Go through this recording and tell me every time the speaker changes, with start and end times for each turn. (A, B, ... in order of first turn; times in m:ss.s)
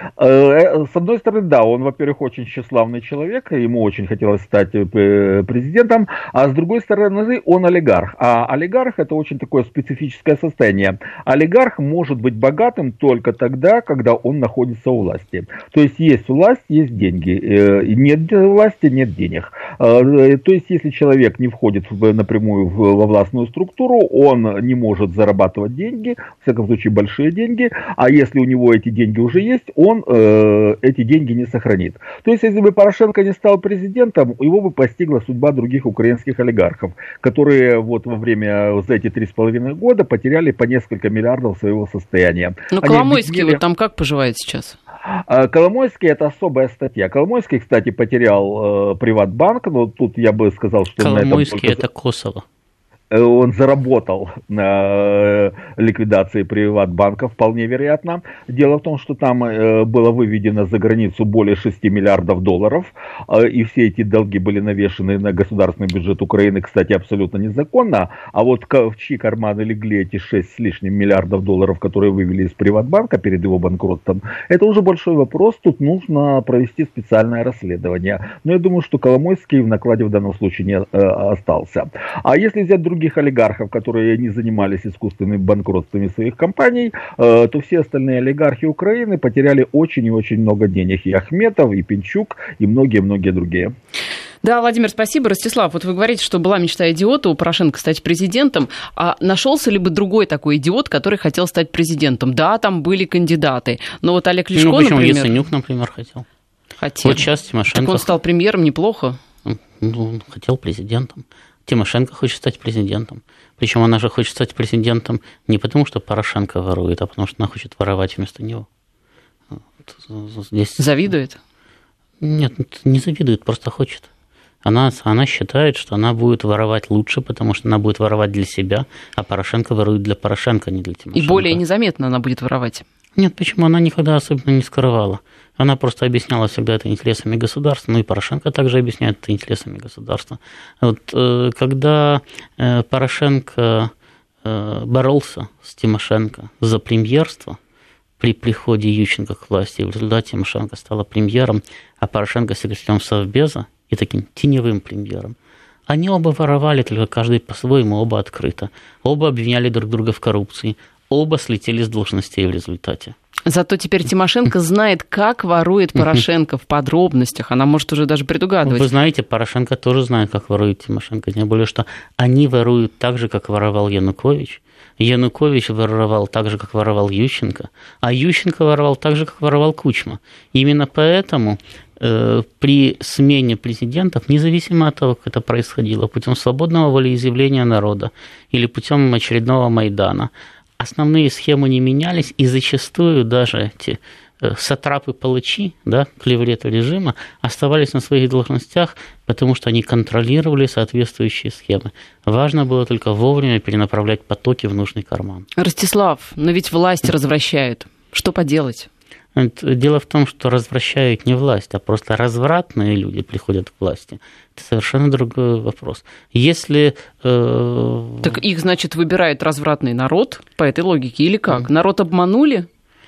0:00.2-0:43.6 A
0:42.7-0:44.8 B
0:45.3-0:51.8 A
0:51.0-0:52.4 C
0:53.1-1:33.7 A
1:34.4-1:45.3 B
1:44.6-1:46.2 C
1:46.8-1:49.2 B
1:47.0-1:48.1 C
1:49.4-1:58.6 C
1:59.5-2:00.9 C
2:00.8-2:01.4 B
2:02.2-2:04.1 C
2:04.6-2:11.6 C
2:11.1-2:12.8 B
2:13.2-2:23.9 C
2:24.4-2:27.6 C
2:28.2-2:35.4 C
2:35.9-2:43.1 C
2:43.4-2:48.9 B
2:48.6-3:25.5 C
3:25.6-3:28.9 B
3:29.4-3:38.4 C
3:38.2-3:42.7 B